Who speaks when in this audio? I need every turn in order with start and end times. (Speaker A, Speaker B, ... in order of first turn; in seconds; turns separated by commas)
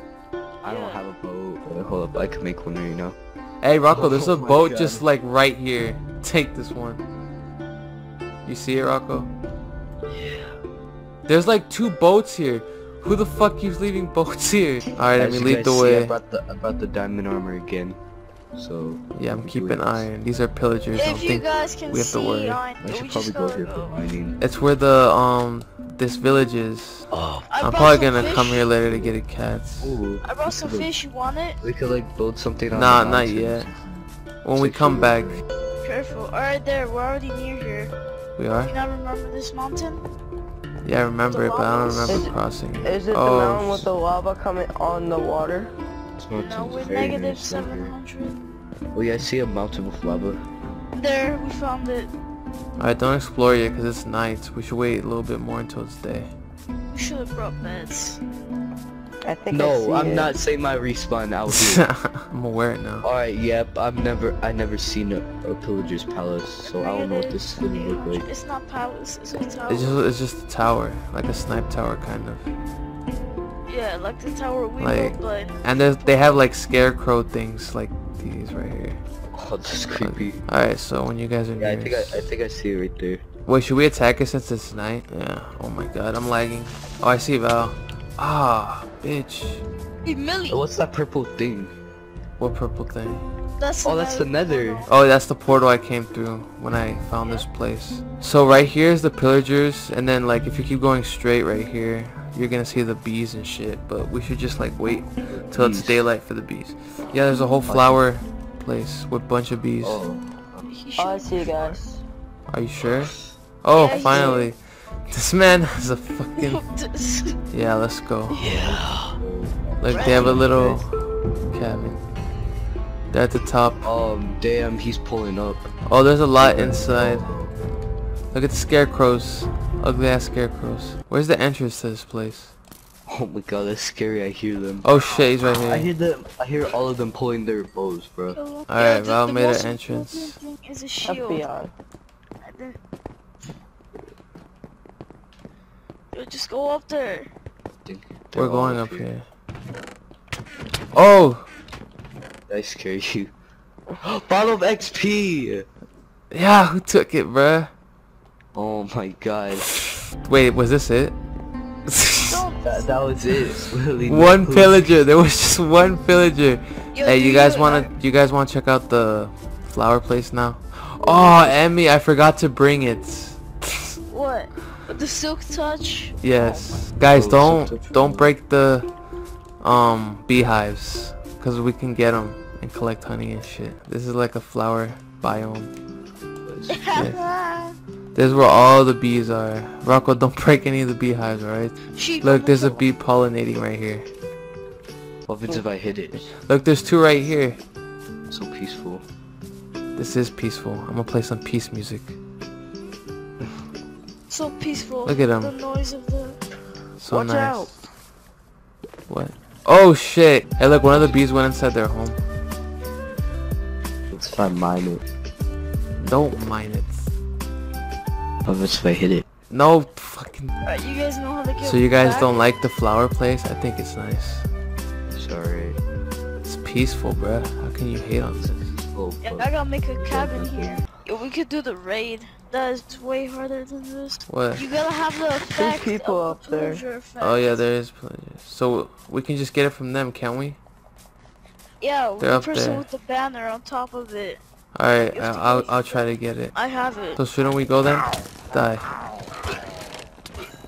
Speaker A: 0.6-1.0, Speaker B: 0.6-3.2, Speaker C: 3.6-7.0, Speaker B: 3.9-5.0, Speaker C: 8.4-9.3, Speaker C: 11.3-16.1, Speaker B: 15.2-18.0, Speaker B: 18.5-20.1, Speaker C: 19.1-22.6, Speaker A: 20.9-24.1, Speaker B: 22.8-24.4, Speaker C: 24.4-27.1, Speaker B: 27.1-27.5, Speaker A: 27.5-28.6, Speaker C: 27.6-29.9, Speaker B: 28.9-29.2, Speaker B: 29.8-30.9, Speaker A: 30.2-31.6, Speaker B: 31.6-34.0, Speaker C: 32.7-33.7, Speaker C: 34.4-35.4, Speaker B: 34.5-35.4, Speaker A: 35.8-37.9, Speaker C: 38.4-38.7, Speaker A: 38.7-40.0, Speaker C: 40.8-43.9, Speaker A: 41.3-42.3, Speaker D: 42.8-45.7, Speaker B: 46.2-47.9, Speaker A: 46.4-48.4, Speaker B: 48.9-50.4, Speaker A: 50.9-52.1, Speaker C: 52.8-56.3, Speaker A: 56.9-58.2, Speaker D: 59.2-60.3, Speaker B: 59.5-61.8, Speaker C: 61.5-63.1, Speaker B: 63.0-68.3, Speaker A: 66.6-70.0, Speaker C: 69.7-72.5, Speaker A: 73.7-76.4, Speaker C: 74.8-79.0, Speaker B: 79.3-80.4, Speaker C: 80.0-82.2, Speaker B: 81.6-83.2, Speaker C: 83.5-89.6, Speaker A: 90.0-90.6, Speaker B: 90.5-91.7, Speaker C: 92.4-93.2, Speaker A: 93.6-94.9, Speaker B: 93.8-94.8, Speaker C: 94.9-110.0, Speaker B: 105.3-106.0, Speaker B: 107.7-108.0, Speaker B: 109.8-110.7, Speaker A: 110.7-111.8, Speaker D: 111.0-112.0, Speaker C: 112.5-116.6, Speaker A: 113.7-114.5, Speaker D: 114.0-114.4, Speaker A: 116.4-117.4, Speaker C: 117.5-118.5, Speaker A: 118.3-119.0, Speaker B: 118.4-120.8, Speaker C: 119.8-120.9, Speaker A: 119.9-120.4, Speaker C: 121.5-122.0, Speaker C: 123.1-123.9, Speaker B: 123.8-125.7, Speaker C: 125.9-127.3, Speaker B: 126.4-127.5, Speaker C: 128.3-132.5, Speaker B: 133.1-134.9, Speaker C: 134.8-135.9, Speaker B: 135.6-138.4, Speaker A: 138.3-141.5, Speaker C: 138.7-140.3, Speaker D: 141.0-141.7, Speaker A: 142.4-142.8, Speaker A: 146.1-147.3, Speaker B: 147.8-149.1, Speaker C: 148.3-149.2, Speaker C: 150.9-151.4, Speaker B: 152.5-153.3, Speaker B: 154.0-155.7, Speaker C: 156.3-157.7, Speaker B: 158.5-159.7, Speaker C: 159.6-161.2, Speaker C: 161.9-162.4, Speaker A: 162.2-163.2, Speaker B: 162.6-165.0, Speaker C: 164.0-173.9, Speaker A: 166.9-167.9, Speaker B: 171.0-171.5, Speaker A: 174.1-176.2, Speaker C: 176.2-178.9, Speaker D: 176.3-176.6, Speaker B: 177.1-178.3, Speaker C: 179.6-185.7, Speaker B: 186.4-186.8, Speaker A: 186.7-187.8, Speaker C: 188.1-194.1, Speaker A: 191.9-192.8, Speaker B: 195.3-196.3, Speaker C: 196.4-197.6, Speaker B: 198.3-199.0, Speaker C: 199.9-202.2, Speaker A: 204.3-206.4, Speaker C: 205.0-205.5, Speaker C: 207.0-207.7, Speaker D: 207.1-207.7, Speaker C: 209.1-212.2, Speaker B: 210.8-211.1, Speaker B: 214.1-215.0, Speaker C: 216.0-217.1, Speaker B: 218.4-219.2, Speaker C: 219.5-220.5, Speaker A: 220.6-222.5, Speaker C: 221.6-224.5, Speaker B: 225.1-225.8, Speaker C: 226.4-228.7, Speaker B: 228.4-229.5, Speaker A: 229.2-237.6, Speaker B: 230.0-230.9, Speaker C: 234.3-234.6, Speaker D: 235.5-236.8, Speaker C: 237.2-240.6, Speaker A: 241.8-244.4, Speaker C: 242.2-242.8, Speaker C: 244.7-246.5, Speaker A: 245.1-247.2, Speaker C: 247.2-248.8